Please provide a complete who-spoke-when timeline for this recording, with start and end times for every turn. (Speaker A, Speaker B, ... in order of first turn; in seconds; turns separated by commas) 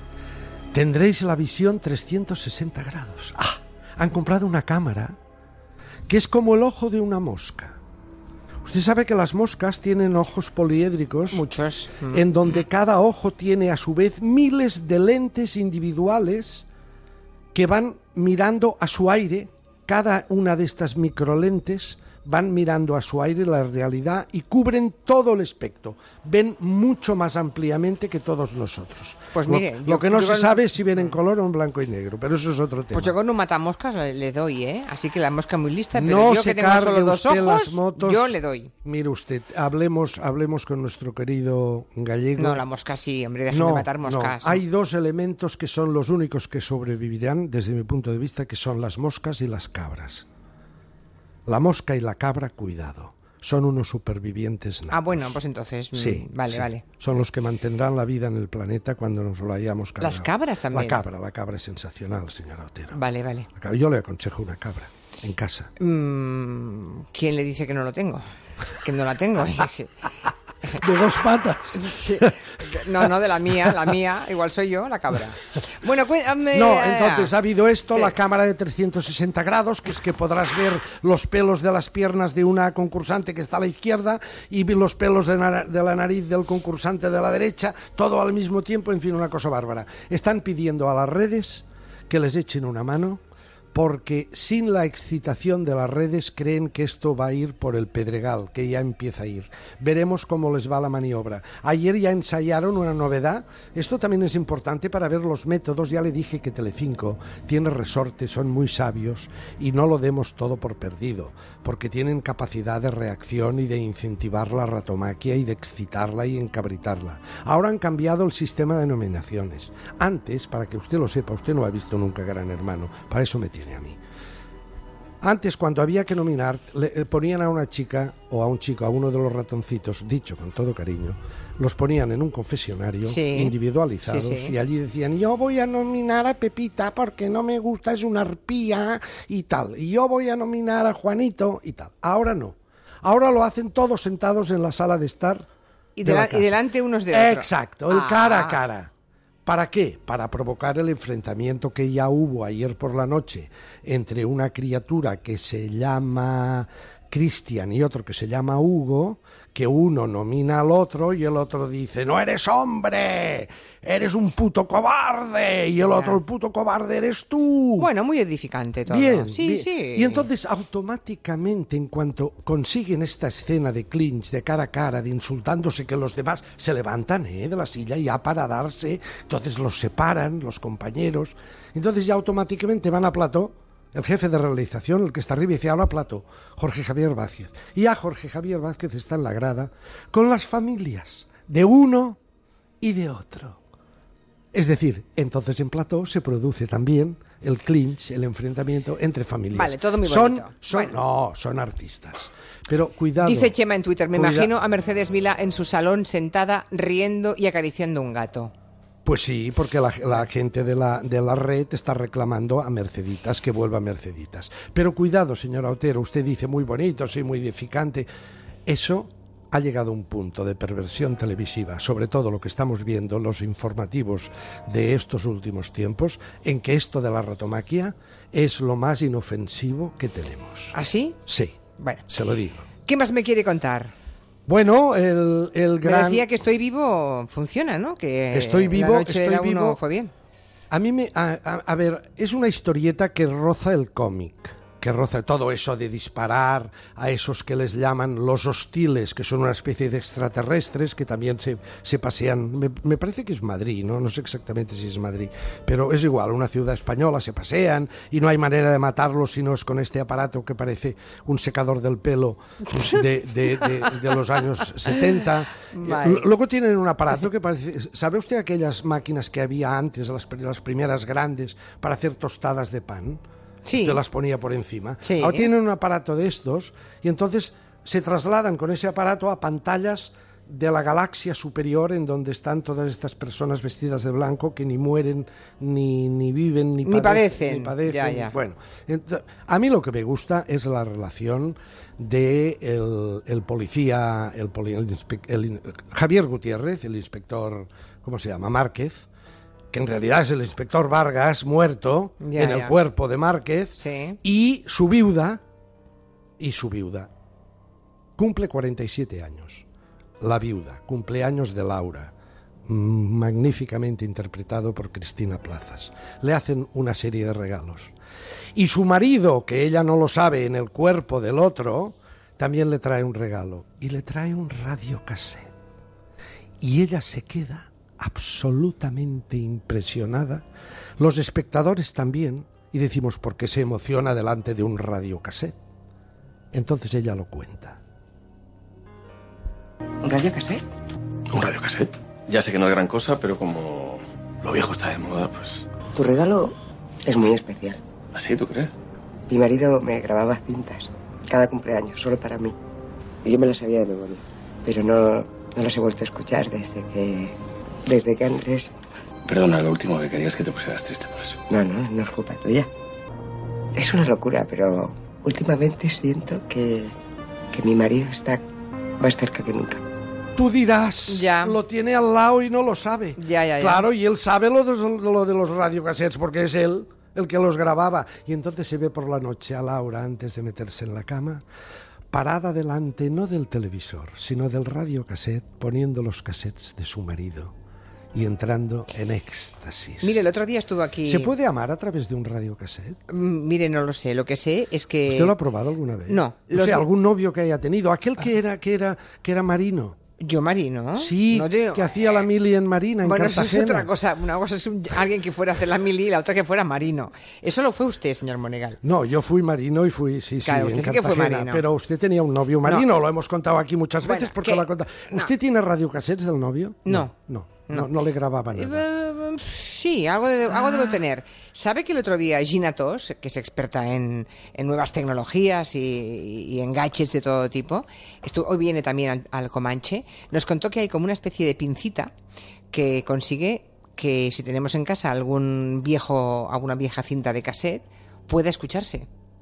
Speaker A: 0.7-5.2, Speaker A: 6.1-7.8, Speaker A: 8.6-11.4, Speaker B: 11.3-12.3, Speaker A: 12.1-16.6, Speaker A: 17.5-33.1, Speaker B: 29.3-31.2, Speaker B: 32.9-38.7, Speaker A: 35.9-42.6, Speaker B: 42.4-44.6, Speaker A: 43.5-50.2, Speaker A: 51.5-55.4, Speaker B: 54.9-56.8, Speaker A: 55.9-63.0, Speaker B: 60.0-61.0, Speaker B: 62.9-63.5, Speaker A: 63.5-65.7, Speaker B: 65.8-68.2, Speaker B: 68.8-69.9, Speaker A: 70.7-72.3, Speaker B: 71.7-77.3, Speaker A: 76.5-93.2, Speaker A: 93.7-124.0, Speaker A: 125.2-145.4, Speaker B: 133.1-134.5, Speaker B: 145.9-148.6, Speaker A: 146.0-146.6, Speaker A: 147.1-148.9, Speaker A: 149.4-167.9, Speaker B: 165.8-166.2, Speaker B: 167.8-170.3, Speaker A: 168.8-192.2, Speaker A: 192.8-193.6, Speaker A: 194.5-203.5, Speaker B: 199.5-200.9, Speaker B: 203.2-208.5, Speaker A: 204.1-204.5, Speaker A: 209.0-218.1, Speaker A: 218.7-231.6, Speaker B: 230.7-231.2, Speaker B: 231.8-232.1, Speaker A: 232.1-232.7, Speaker B: 232.8-233.9, Speaker A: 234.5-236.3, Speaker B: 235.8-240.1, Speaker A: 238.3-239.8, Speaker A: 240.7-273.2, Speaker B: 265.7-266.3, Speaker B: 273.6-274.0, Speaker A: 273.8-299.1, Speaker B: 275.0-275.5, Speaker B: 286.8-288.3, Speaker A: 299.7-305.4, Speaker B: 302.2-302.7, Speaker B: 303.8-304.2, Speaker A: 306.4-307.1, Speaker A: 308.2-309.6, Speaker A: 310.2-312.1, Speaker A: 312.7-317.9, Speaker A: 318.5-325.5, Speaker A: 326.6-330.4, Speaker A: 331.0-335.6, Speaker A: 336.5-337.8, Speaker C: 340.0-340.6, Speaker D: 341.3-345.7, Speaker C: 345.9-347.8, Speaker D: 348.1-348.7, Speaker C: 349.3-352.6, Speaker C: 353.2-358.7, Speaker D: 359.3-361.4, Speaker C: 361.5-362.7, Speaker C: 363.7-367.0, Speaker C: 367.5-368.4, Speaker C: 369.0-369.8, Speaker A: 370.4-381.4, Speaker B: 371.1-371.6, Speaker B: 373.2-373.9, Speaker A: 382.1-387.5, Speaker A: 388.1-390.2, Speaker B: 390.0-391.3, Speaker A: 391.0-393.0, Speaker B: 393.1-395.4, Speaker A: 395.1-400.0, Speaker B: 396.1-396.8, Speaker B: 400.2-402.1, Speaker A: 400.9-403.9, Speaker B: 403.0-408.8, Speaker A: 408.8-418.8, Speaker B: 410.4-411.6, Speaker B: 414.0-415.3, Speaker B: 416.8-417.1, Speaker B: 418.5-432.1, Speaker A: 420.5-421.0, Speaker B: 432.7-439.1